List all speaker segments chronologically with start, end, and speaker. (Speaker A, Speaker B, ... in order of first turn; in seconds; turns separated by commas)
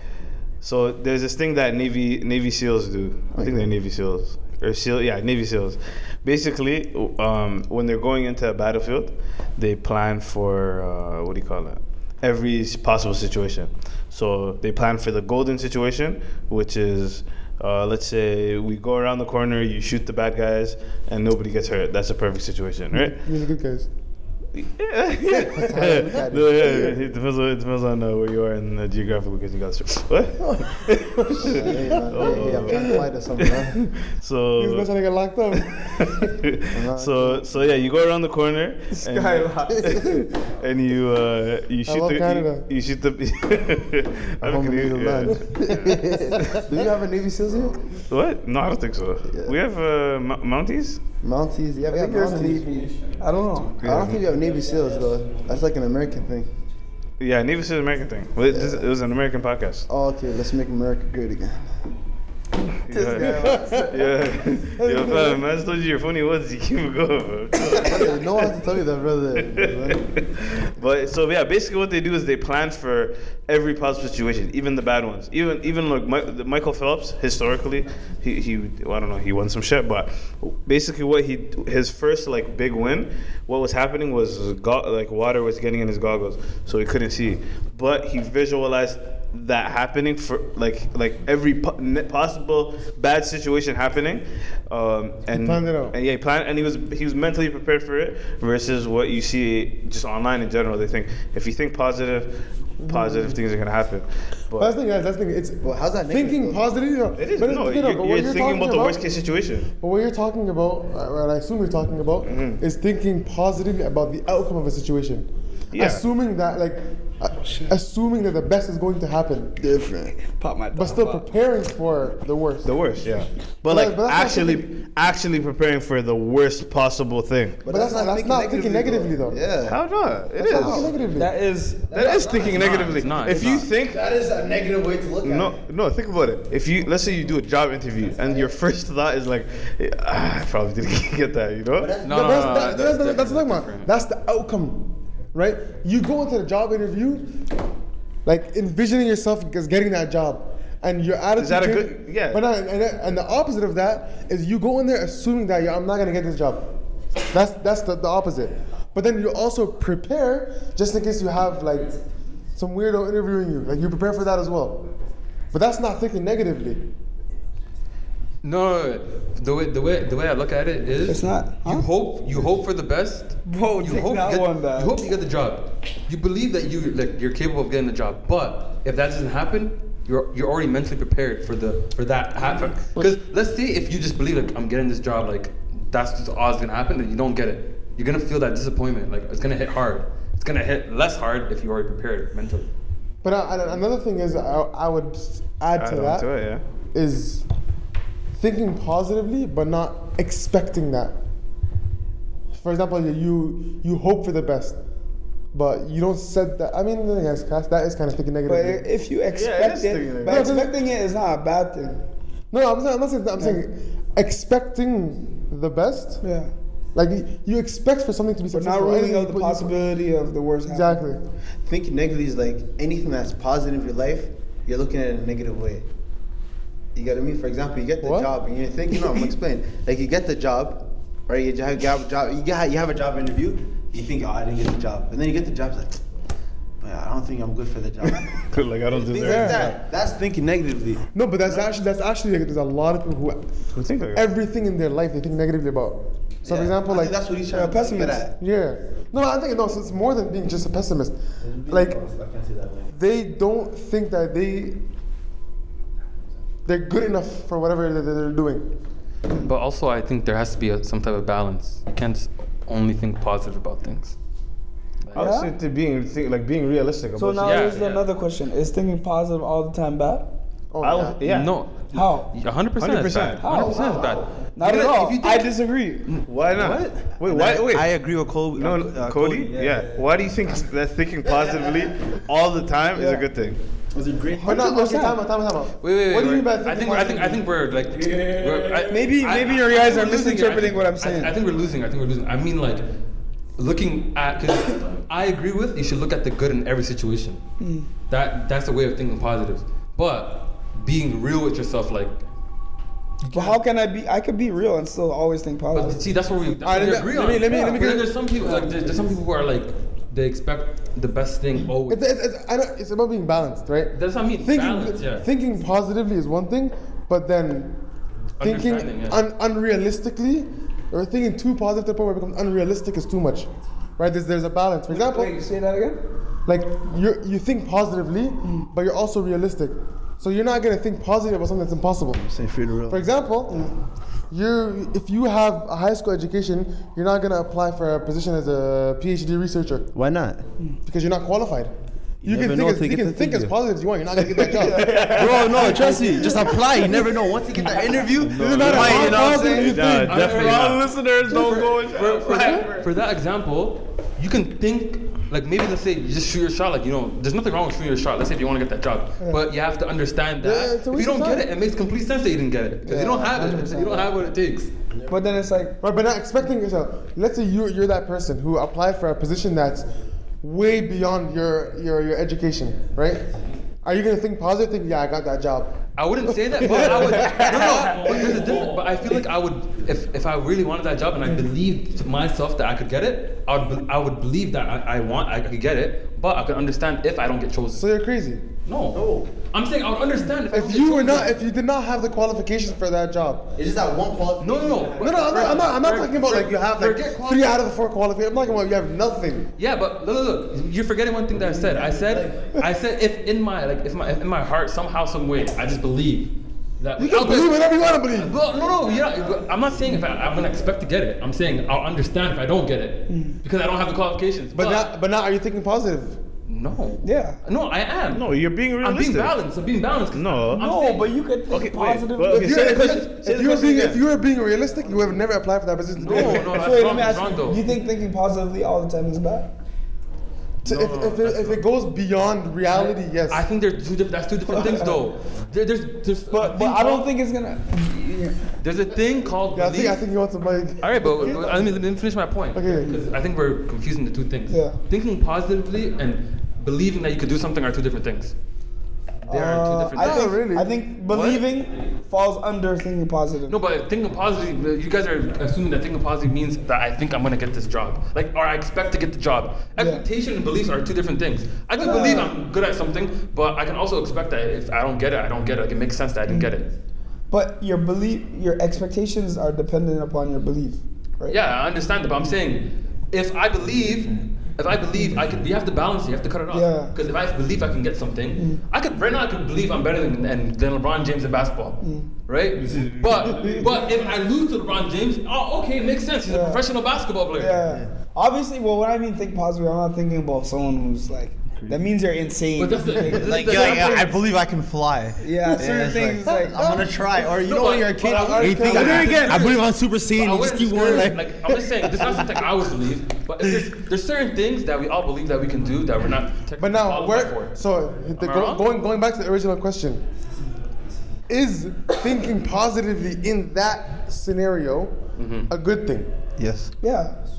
Speaker A: 0.6-23.3, Speaker B: 23.0-23.9, Speaker A: 24.6-34.9, Speaker B: 25.3-26.9, Speaker C: 25.6-26.9, Speaker B: 31.2-33.1, Speaker C: 31.3-33.8, Speaker B: 34.6-36.4, Speaker A: 35.6-46.6, Speaker C: 36.7-37.5, Speaker D: 39.1-39.8, Speaker C: 39.2-40.2, Speaker B: 41.9-42.7, Speaker C: 44.4-47.9, Speaker A: 48.1-51.0, Speaker C: 49.3-49.5, Speaker C: 51.2-52.7, Speaker D: 51.9-53.8, Speaker C: 53.8-56.5, Speaker A: 53.8-54.2, Speaker A: 57.2-59.9, Speaker C: 58.5-58.8, Speaker C: 59.9-61.7, Speaker A: 62.8-68.2, Speaker D: 62.9-64.1, Speaker B: 63.2-63.9, Speaker D: 64.8-65.4, Speaker C: 67.8-70.1, Speaker A: 69.4-104.8, Speaker B: 95.3-96.0, Speaker B: 102.8-103.4, Speaker B: 104.6-109.1, Speaker C: 105.6-106.6, Speaker A: 107.2-109.7, Speaker B: 109.8-119.6, Speaker A: 112.2-112.6, Speaker A: 115.7-116.0, Speaker D: 117.5-117.7, Speaker D: 119.6-121.3, Speaker B: 120.7-122.8, Speaker A: 122.6-127.6, Speaker B: 123.7-124.7, Speaker C: 127.6-129.8, Speaker B: 127.7-129.4, Speaker A: 129.7-130.9, Speaker D: 130.5-132.3, Speaker B: 130.5-131.3, Speaker C: 130.5-130.9, Speaker C: 131.9-135.5, Speaker A: 131.9-134.1, Speaker E: 132.4-133.7, Speaker D: 133.3-133.6, Speaker A: 135.2-142.0, Speaker C: 141.8-143.0, Speaker E: 142.0-143.9, Speaker B: 142.1-147.3, Speaker B: 148.2-156.7, Speaker A: 151.4-152.4, Speaker B: 157.3-161.9, Speaker B: 162.6-164.8, Speaker B: 165.5-166.9, Speaker E: 168.4-192.7, Speaker D: 171.1-171.9, Speaker D: 173.5-175.0, Speaker B: 193.2-196.3, Speaker A: 195.8-196.6, Speaker B: 196.9-197.4, Speaker B: 198.4-201.2, Speaker B: 202.5-204.8, Speaker B: 205.5-208.9, Speaker D: 208.5-212.0, Speaker A: 209.3-210.6, Speaker B: 210.3-210.7, Speaker B: 212.5-216.2, Speaker D: 216.2-216.5, Speaker B: 216.9-219.8, Speaker D: 218.5-221.0, Speaker B: 220.7-221.2, Speaker C: 221.7-225.9, Speaker C: 226.9-236.0, Speaker B: 228.0-228.3, Speaker C: 236.8-238.3, Speaker A: 238.0-239.8, Speaker C: 238.9-241.7, Speaker B: 239.2-239.8, Speaker B: 241.1-243.5, Speaker A: 243.7-244.3, Speaker B: 244.1-247.2, Speaker C: 246.4-248.4, Speaker D: 247.5-248.2, Speaker B: 248.3-252.0, Speaker C: 251.4-252.9, Speaker B: 252.9-254.8, Speaker B: 256.7-258.7, Speaker E: 259.4-264.2, Speaker A: 265.1-267.8, Speaker D: 265.1-265.5, Speaker D: 267.2-270.4, Speaker E: 267.4-268.1, Speaker B: 270.7-271.2, Speaker A: 270.8-271.5, Speaker E: 271.2-275.5, Speaker D: 271.9-272.3, Speaker A: 272.8-273.5, Speaker D: 273.4-276.1, Speaker C: 273.8-274.3, Speaker E: 276.1-276.6, Speaker A: 276.3-277.9, Speaker C: 276.6-280.1, Speaker A: 278.5-283.6, Speaker D: 282.9-283.3, Speaker C: 283.9-284.7, Speaker D: 284.4-285.2, Speaker B: 284.4-287.4, Speaker E: 285.8-292.8, Speaker C: 288.0-288.9, Speaker D: 288.9-291.3, Speaker E: 293.6-297.4, Speaker D: 297.6-297.9, Speaker E: 298.1-302.2, Speaker E: 303.2-303.6, Speaker D: 303.3-306.0, Speaker E: 305.7-312.1, Speaker B: 306.6-308.7, Speaker D: 307.5-307.8, Speaker B: 311.6-317.8, Speaker E: 313.9-315.3, Speaker E: 318.4-319.2, Speaker B: 318.4-325.3, Speaker D: 324.9-326.0, Speaker B: 326.5-332.2, Speaker C: 332.1-333.1, Speaker B: 332.9-333.7, Speaker B: 334.3-339.9, Speaker C: 339.9-340.4, Speaker B: 340.8-341.7, Speaker C: 342.2-343.6, Speaker B: 342.2-347.0, Speaker C: 344.2-349.4, Speaker D: 344.5-346.9, Speaker A: 344.8-345.7, Speaker B: 347.8-350.1, Speaker A: 348.2-352.7, Speaker D: 348.6-350.1, Speaker E: 348.6-349.0, Speaker E: 349.8-364.7, Speaker D: 351.3-352.9, Speaker B: 360.4-361.5, Speaker D: 362.9-364.1, Speaker C: 364.9-365.3, Speaker D: 365.1-365.8, Speaker B: 365.8-369.9, Speaker B: 370.4-373.3, Speaker B: 373.8-375.8, Speaker E: 376.0-387.9, Speaker B: 376.3-378.6, Speaker B: 387.8-388.4, Speaker E: 388.7-391.4, Speaker C: 388.9-389.3, Speaker B: 390.5-393.6, Speaker C: 393.6-395.7, Speaker E: 394.4-397.6, Speaker B: 395.0-399.5, Speaker E: 399.6-414.9, Speaker C: 401.4-402.4, Speaker B: 407.0-408.4, Speaker D: 413.1-413.4, Speaker B: 414.6-416.2, Speaker E: 416.5-418.3, Speaker D: 417.0-417.4, Speaker A: 418.1-419.4, Speaker E: 418.8-421.1, Speaker A: 420.1-420.6, Speaker D: 420.5-422.8, Speaker A: 421.5-424.0, Speaker E: 422.4-423.2, Speaker B: 422.5-426.8, Speaker E: 426.0-427.7, Speaker D: 426.1-429.5, Speaker E: 430.6-431.6, Speaker B: 430.6-433.4, Speaker E: 432.7-437.1, Speaker D: 434.5-435.0, Speaker D: 436.3-438.5, Speaker E: 438.6-440.0, Speaker B: 439.6-441.8, Speaker E: 440.8-448.4, Speaker B: 442.6-443.0, Speaker D: 444.5-444.8, Speaker D: 449.3-453.6, Speaker E: 449.3-450.4, Speaker B: 450.0-450.7, Speaker E: 451.1-451.4, Speaker E: 453.5-466.7, Speaker D: 459.8-460.1, Speaker D: 461.8-462.4, Speaker D: 467.3-471.4, Speaker E: 471.3-487.6, Speaker D: 476.5-476.9, Speaker D: 481.8-482.1, Speaker A: 482.6-483.8, Speaker D: 486.3-486.6, Speaker D: 487.4-493.8, Speaker C: 487.6-487.9, Speaker E: 492.6-494.2, Speaker C: 493.1-501.4, Speaker D: 495.2-496.6, Speaker B: 496.4-496.9, Speaker E: 497.2-507.6, Speaker B: 498.1-499.5, Speaker B: 506.6-510.0, Speaker E: 508.2-508.7, Speaker B: 511.3-515.0, Speaker E: 515.2-515.5, Speaker B: 515.5-516.1, Speaker C: 516.4-516.7, Speaker D: 516.8-517.1